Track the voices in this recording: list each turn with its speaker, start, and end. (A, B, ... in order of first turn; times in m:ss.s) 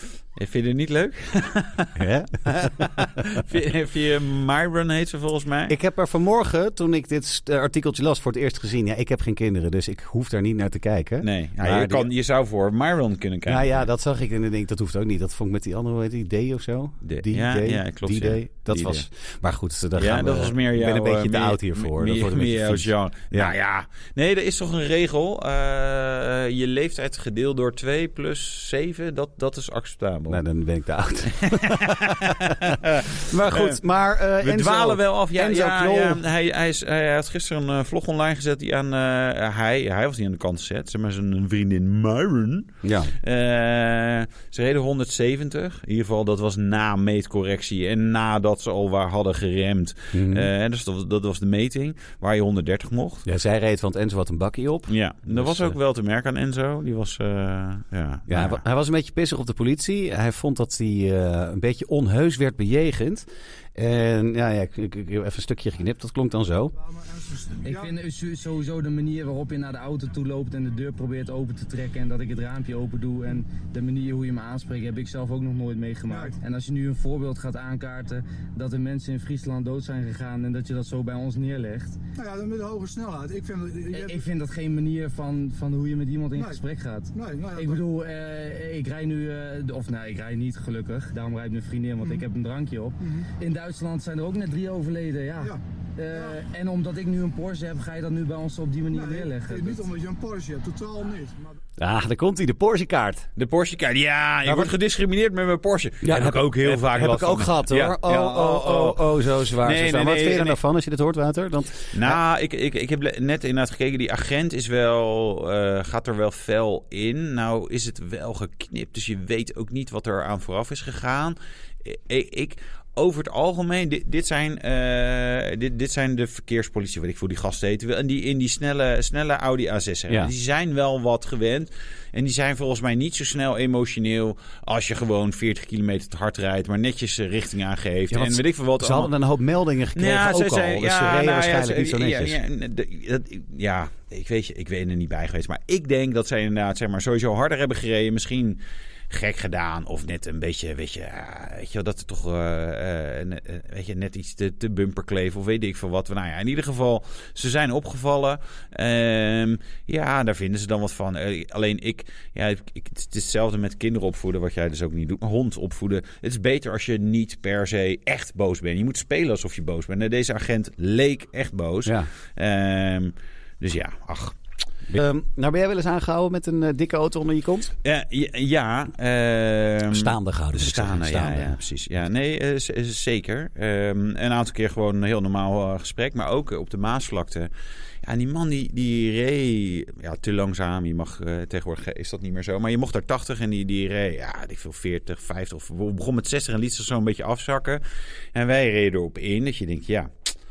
0:00.4-0:02.1 A
0:02.0-0:03.4 B
0:02.6-0:05.8 A
0:05.7-0:12.1 B
0:11.2-0:13.9 A
0:13.5-0:23.6 B
0:17.0-0:19.1 A
0:20.0-0:30.4 A
0:30.3-0:36.2 B
0:31.2-0:33.8 A
0:34.4-0:53.3 A
0:42.8-0:43.1 B
0:50.1-0:50.5 B
0:53.2-0:55.8 B
0:54.9-0:58.6 A
0:58.3-1:06.7 B
1:06.8-1:07.9 C
1:07.6-1:22.0 D
1:16.1-1:16.4 C
1:22.2-1:24.2 C
1:23.9-1:39.8 D
1:26.4-1:26.6 C
1:27.1-1:27.8 C
1:33.0-1:33.3 C
1:38.9-1:41.6 C
1:41.8-1:43.3 B
1:43.4-1:50.6 A
1:44.5-1:44.7 B
1:46.0-1:52.2 B
1:51.9-2:19.1 A
2:10.1-2:10.3 B
2:18.1-2:22.4 B
2:19.9-2:54.4 A
2:51.8-2:52.1 B
2:54.9-2:57.7 B
2:57.8-3:07.5 A
2:59.9-3:01.6 B
3:08.0-3:20.1 A